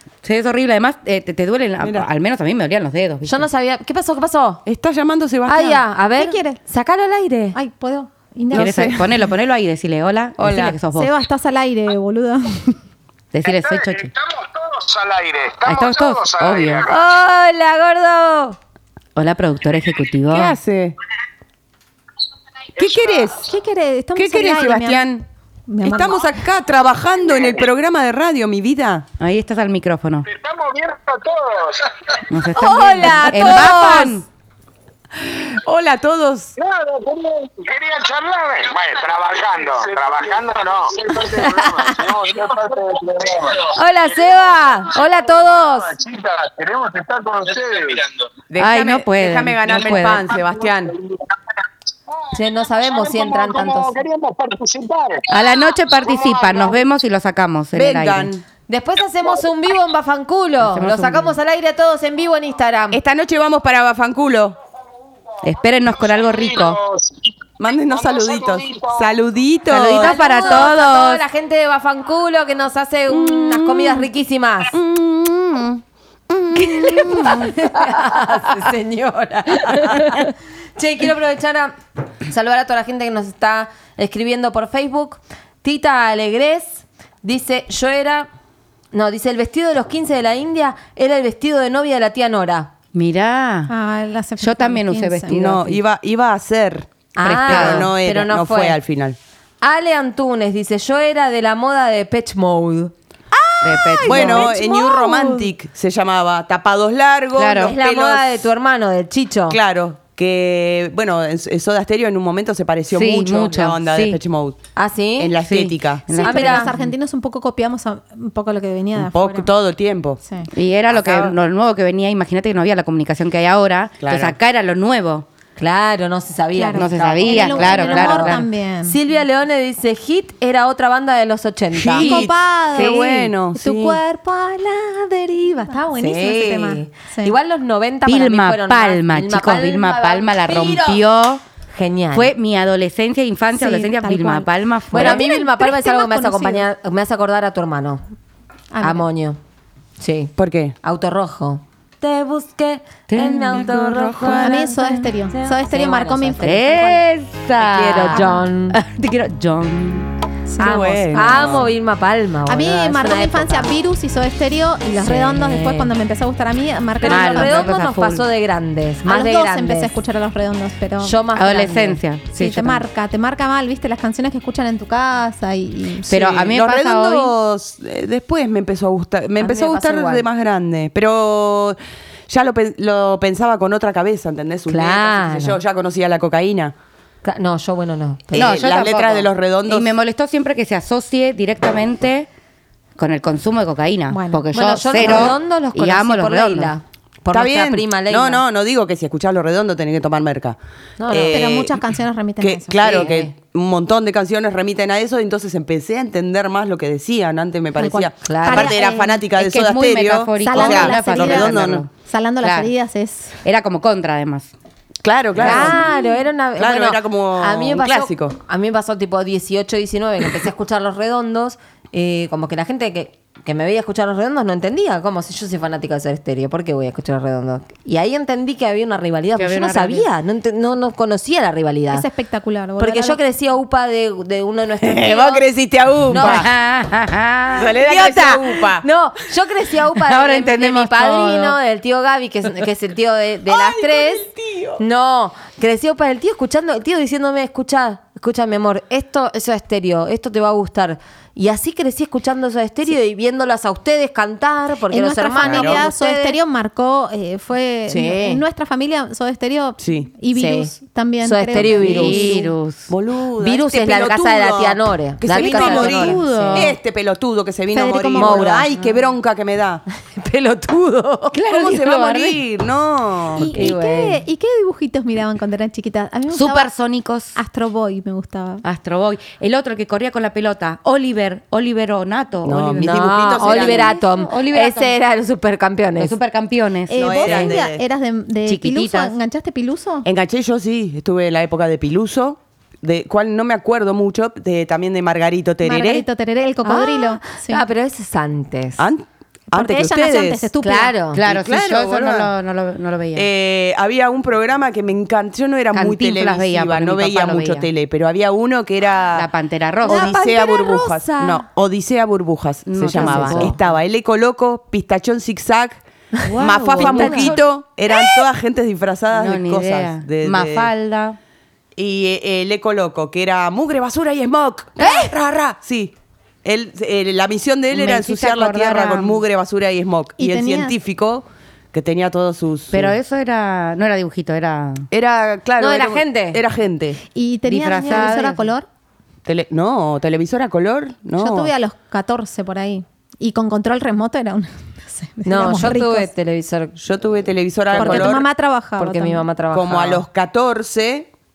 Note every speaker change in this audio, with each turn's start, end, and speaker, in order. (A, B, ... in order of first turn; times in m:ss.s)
0:00.2-0:03.5 A
0:01.8-0:02.1 B
0:03.2-0:04.6 C
0:04.6-0:05.8 B
0:05.5-0:07.6 C
0:06.2-0:06.6 D
0:07.5-0:09.1 D
0:08.5-0:09.0 B
0:08.5-0:11.1 A
0:10.4-0:10.8 B
0:10.9-0:12.8 D
0:13.3-0:14.1 A
0:13.9-0:16.8 E
0:15.6-0:16.9 A
0:16.8-0:18.6 C
0:19.2-0:20.5 A
0:20.3-0:21.0 B
0:22.8-0:23.5 B
0:23.4-0:25.0 D
0:24.1-0:25.3 B
0:25.7-0:26.2 D
0:25.8-0:29.0 B
0:29.2-0:30.3 A
0:30.3-0:31.8 E
0:32.3-0:34.2 A
0:32.5-0:34.2 C
0:33.4-0:33.9 B
0:35.2-0:36.6 B
0:36.6-0:43.5 E
0:41.1-0:42.4 C
0:43.6-0:46.0 C
0:46.0-0:48.1 E
0:48.5-0:51.0 B
0:48.6-0:50.3 A
0:52.3-0:54.0 C
0:53.0-0:55.2 E
0:55.3-0:58.3 A
0:56.2-0:56.6 E
0:57.7-0:58.4 B
0:58.7-1:03.0 C
1:00.6-1:01.4 A
1:02.9-1:04.6 B
1:05.4-1:06.8 A
1:07.6-1:10.2 B
1:08.5-1:08.8 E
1:09.7-1:11.2 A
1:10.0-1:14.7 C
1:13.1-1:14.0 B
1:14.7-1:17.6 B
1:16.6-1:28.3 C
1:28.9-1:32.7 C
1:32.9-1:33.7 A
1:33.7-1:35.3 D
1:34.4-1:35.8 A
1:35.3-1:36.9 B
1:37.1-1:38.8 C
1:37.2-1:37.9 A
1:37.4-1:39.2 B
1:39.6-1:45.1 C
1:43.6-1:44.5 A
1:44.0-1:48.4 B
1:44.5-1:45.4 D
1:47.4-1:47.7 A
1:47.6-1:49.6 C
1:49.5-1:54.6 B
1:52.9-1:54.2 A
1:54.8-1:55.4 C
1:55.2-1:56.2 B
1:55.4-1:56.9 A
1:56.2-1:56.7 C
1:56.2-1:59.5 D
1:59.0-2:00.2 B
2:00.5-2:05.2 A
2:00.9-2:01.4 B
2:04.0-2:04.4 B
2:05.6-2:12.1 C
2:06.6-2:09.0 D
2:06.7-2:08.4 A
2:11.7-2:14.0 B
2:12.0-2:17.3 D
2:12.2-2:13.3 A
2:15.9-2:21.0 C
2:18.0-2:21.4 A
2:21.7-2:22.3 C
2:22.1-2:25.2 A
2:23.5-2:26.6 D
2:24.9-2:28.0 C
2:28.7-2:29.0 D
2:28.8-2:29.4 C
2:30.0-2:36.8 C
2:30.4-2:30.8 B
2:33.1-2:33.7 A
2:33.5-2:34.6 B
2:34.2-2:37.0 D
2:36.4-2:40.1 A
2:37.6-2:38.8 C
2:38.1-2:38.4 D
2:40.5-2:41.6 D
2:40.6-2:41.7 B
2:40.6-2:43.7 C
2:42.5-2:47.7 D
2:45.0-2:45.9 C
2:47.0-2:49.9 C
2:47.0-2:48.2 A
2:49.0-2:51.2 D
2:51.0-2:52.0 C
2:51.4-2:52.8 A
2:52.3-2:56.0 D
2:56.0-3:06.7 B
2:56.1-2:57.3 A
2:59.4-3:00.2 C
3:04.7-3:05.6 C
3:07.2-3:08.6 C
3:08.3-3:10.0 B
3:08.3-3:12.3 A
3:13.0-3:16.7 A
3:14.1-3:14.4 D
3:14.5-3:18.4 C
3:17.3-3:21.8 B
3:21.0-3:21.5 C
3:21.3-3:22.8 D
3:22.4-3:31.8 B
3:22.8-3:23.3 C
3:27.8-3:29.2 D
3:28.2-3:28.7 C
3:29.3-3:31.9 A
3:30.4-3:33.3 D
3:32.4-3:32.7 A
3:33.4-3:34.5 A
3:35.0-3:35.9 B
3:35.4-3:35.8 A
3:35.4-3:52.0 C
3:36.6-3:38.4 B
3:49.4-3:50.1 A
3:51.9-3:53.2 D
3:52.8-3:55.4 C
3:54.8-3:56.5 B
3:56.1-3:56.5 C
3:56.1-3:57.8 A
3:57.5-3:58.8 B
3:57.8-4:16.4 C
3:59.9-4:01.6 A
4:03.5-4:04.8 B
4:14.9-4:22.4 D
4:15.4-4:15.8 B
4:17.9-4:18.4 C
4:19.8-4:20.1 B
4:20.3-4:22.4 C
4:21.6-4:22.9 A
4:22.9-4:29.8 B
4:23.4-4:26.7 C
4:25.3-4:26.7 A
4:27.7-4:28.6 D
4:28.2-4:28.8 C
4:30.0-4:31.4 C
4:31.3-4:32.4 A
4:31.4-4:33.5 B
4:33.4-4:36.7 D
4:33.5-4:34.2 C
4:36.3-4:37.3 A
4:37.3-4:38.6 D
4:38.6-4:44.9 A
4:42.4-4:43.9 B
4:42.8-4:46.1 C
4:46.0-4:47.6 A
4:46.9-4:50.0 D
4:47.0-4:47.8 B
4:48.4-4:49.1 A
4:50.0-4:56.0 B
4:55.6-4:57.6 D
4:56.6-4:58.8 C
4:58.8-5:00.5 B
4:59.5-5:00.9 D
5:00.6-5:01.2 C
5:01.1-5:03.3 A
5:01.2-5:02.3 B
5:03.1-5:09.3 B
5:05.7-5:07.7 A
5:09.1-5:10.1 A
5:09.8-5:11.4 C
5:09.8-5:15.8 B
5:12.7-5:13.6 A
5:12.9-5:13.6 C
5:16.1-5:17.4 C
5:16.2-5:17.3 A
5:16.4-5:20.7 B
5:19.1-5:21.2 A
5:21.8-5:33.0 B
5:24.8-5:25.1 A
5:27.7-5:29.2 A
5:30.2-5:30.7 D
5:32.7-5:34.9 A
5:34.9-5:37.0 B
5:35.6-5:36.4 C
5:37.1-5:38.6 D
5:37.5-5:38.5 A
5:39.2-5:41.5 B
5:41.2-5:46.1 D
5:45.2-5:46.8 C
5:46.8-5:48.2 B
5:47.7-5:48.2 C
5:47.8-5:49.2 D
5:48.8-5:50.0 C
5:49.5-5:51.1 B